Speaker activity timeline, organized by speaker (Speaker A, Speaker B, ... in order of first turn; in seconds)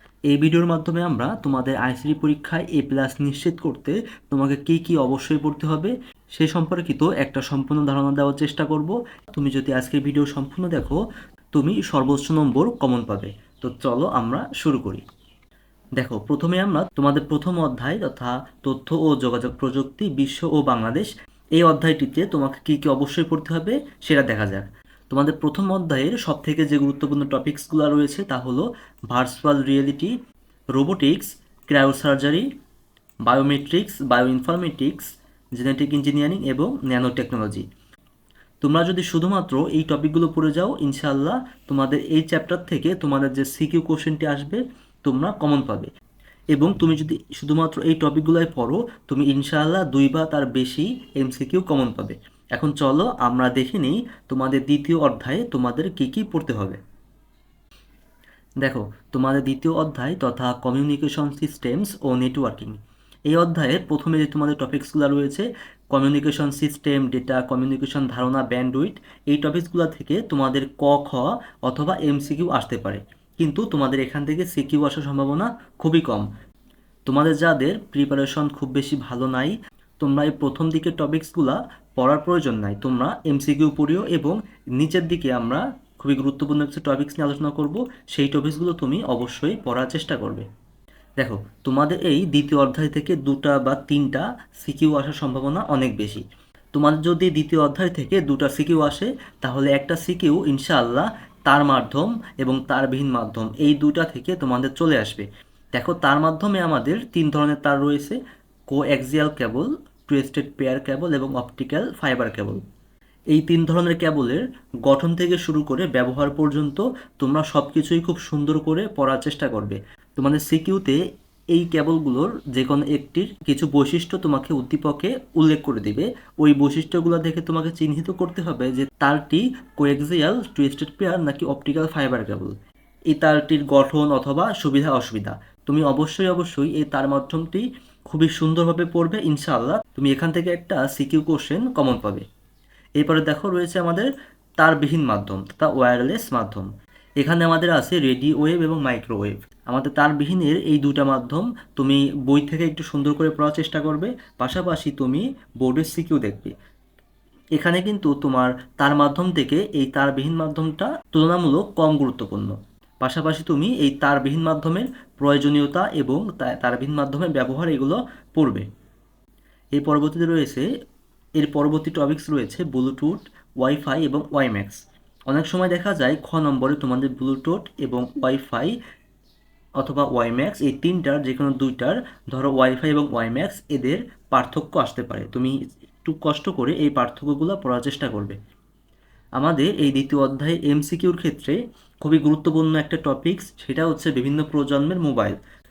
Speaker A: 0.3-11.0, 11.5-15.0, 16.0-30.1, 30.7-32.5, 33.3-37.6, 38.6-45.9, 46.5-56.8, 58.6-76.3, 77.1-90.5, 91.2-108.2, 108.7-112.6, 113.3-121.0, 121.5-132.5, 133.1-142.2, 143.0-146.7, 147.2-156.5, 157.6-168.7, 169.8-170.7, 171.4-178.8, 179.8-188.4, 189.4-195.4